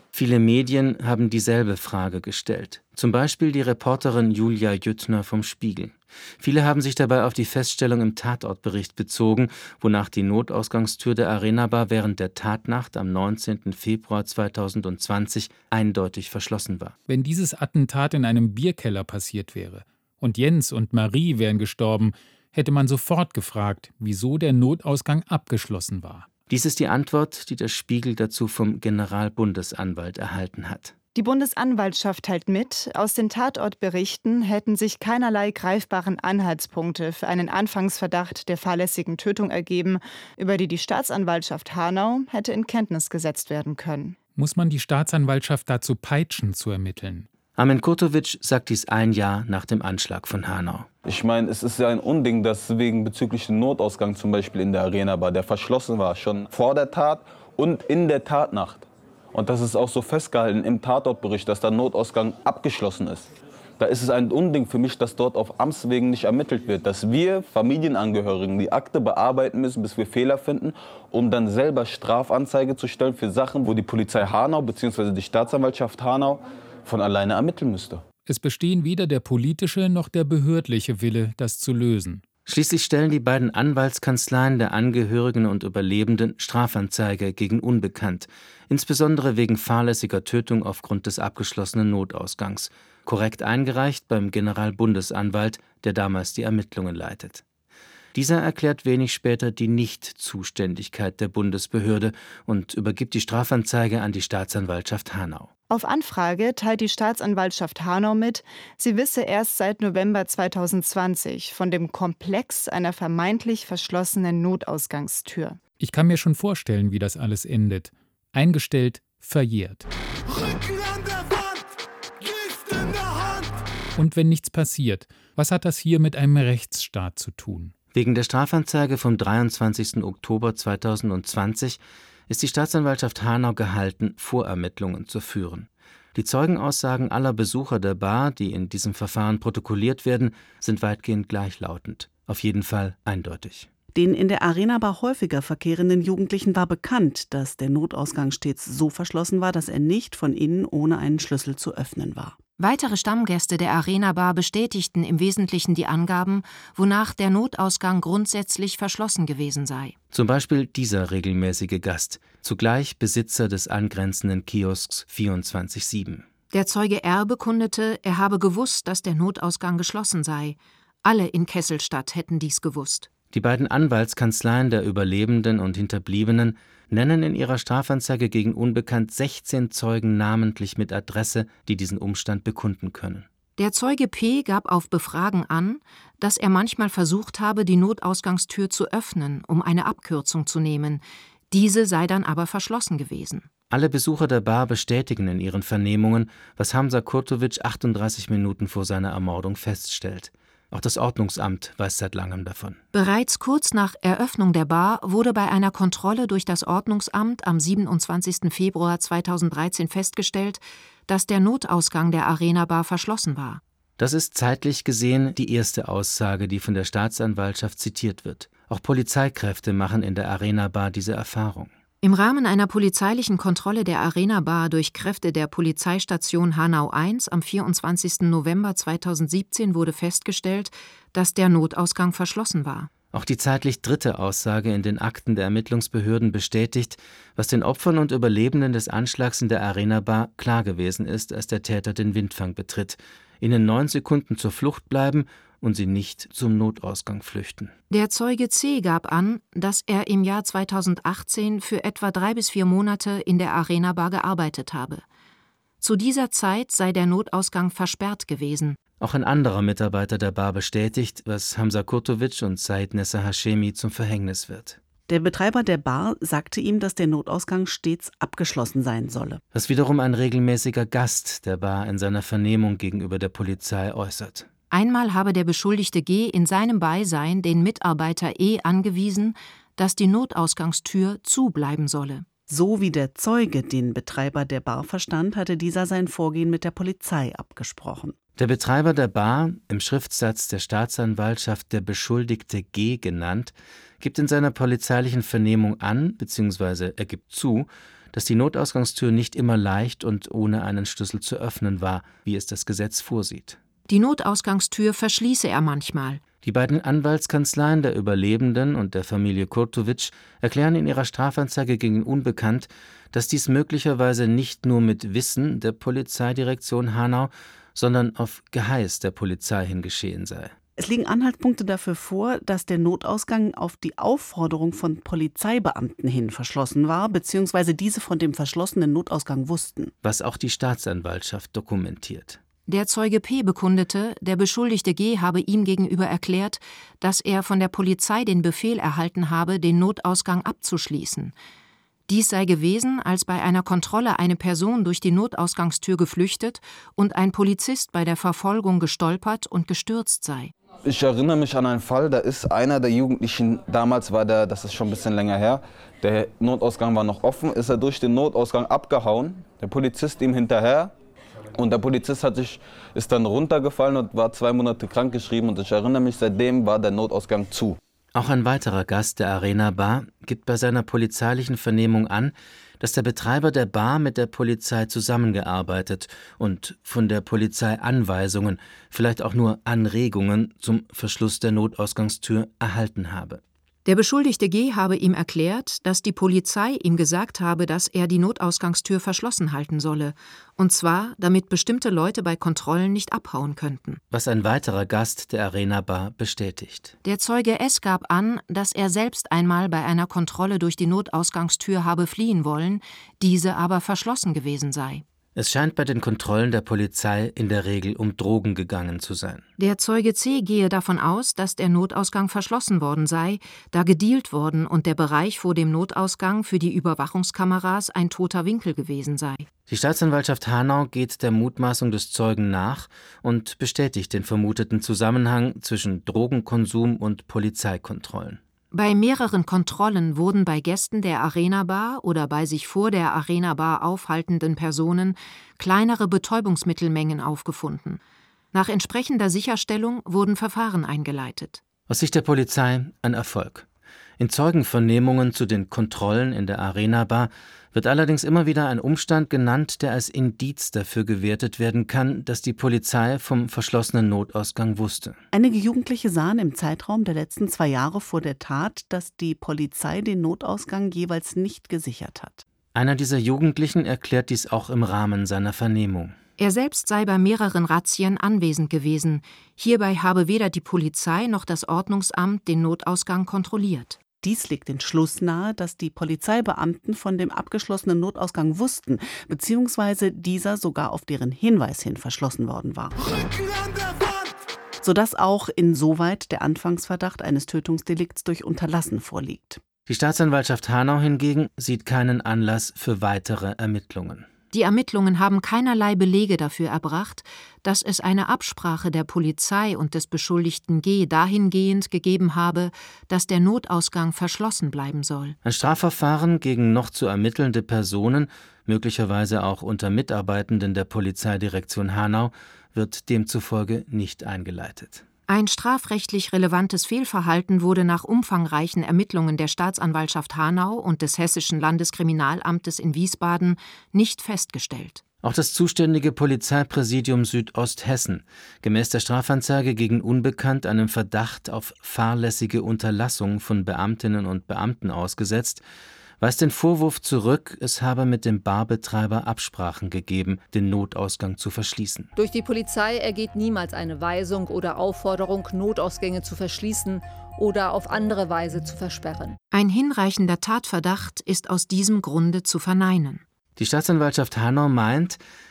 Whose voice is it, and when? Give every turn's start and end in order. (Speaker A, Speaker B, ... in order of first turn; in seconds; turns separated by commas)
Speaker A: 0.1-16.9, Speaker B: 17.1-26.3, Speaker A: 26.5-30.9, Speaker C: 31.1-44.2, Speaker B: 44.4-47.3, Speaker A: 47.5-50.9, Speaker D: 51.0-63.3, Speaker D: 63.8-78.0, Speaker B: 78.2-82.2, Speaker A: 82.5-97.4, Speaker A: 98.1-105.5, Speaker C: 105.7-115.6, Speaker B: 115.8-119.8, Speaker B: 124.0-127.7, Speaker A: 127.9-143.7, Speaker E: 143.9-152.4, Speaker F: 152.6-159.9, Speaker A: 160.1-166.2, Speaker F: 166.5-173.1, Speaker A: 173.3-183.3, Speaker F: 183.6-193.5, Speaker A: 193.7-202.8, Speaker F: 202.9-213.6, Speaker A: 214.0-221.7, Speaker F: 222.0-232.9, Speaker A: 233.1-247.7, Speaker F: 247.9-255.0, Speaker F: 255.8-258.8, Speaker A: 259.0-264.8, Speaker E: 265.1-269.4, Speaker A: 269.5-274.5, Speaker F: 274.7-282.2, Speaker E: 282.5-288.1, Speaker A: 288.4-303.6, Speaker F: 303.9-306.2, Speaker A: 306.4-320.5, Speaker E: 320.8-329.9, Speaker A: 330.0-332.4, Speaker F: 332.7-341.3, Speaker F: 342.1-350.5, Speaker D: 350.8-360.9, Speaker D: 361.5-367.8, Speaker A: 368.1-383.4, Speaker F: 383.8-394.0, Speaker A: 394.1-396.9, Speaker F: 397.0-405.0, Speaker A: 405.3-409.4, Speaker F: 409.6-419.4, Speaker A: 419.7-428.4, Speaker F: 428.7-438.0, Speaker F: 438.5-441.6, Speaker A: 441.9-443.7, Speaker A: 444.2-455.2, Speaker E: 455.3-462.4, Speaker A: 462.7-466.1, Speaker F: 466.4-474.0, Speaker E: 474.2-483.1, Speaker E: 484.8-489.6, Speaker A: 489.9-494.3, Speaker F: 494.5-505.4, Speaker A: 505.4-515.0, Speaker F: 515.3-525.0, Speaker A: 525.2-535.6, Speaker A: 536.2-542.1, Speaker G: 542.1-549.4, Speaker F: 549.5-553.2, Speaker A: 553.5-555.2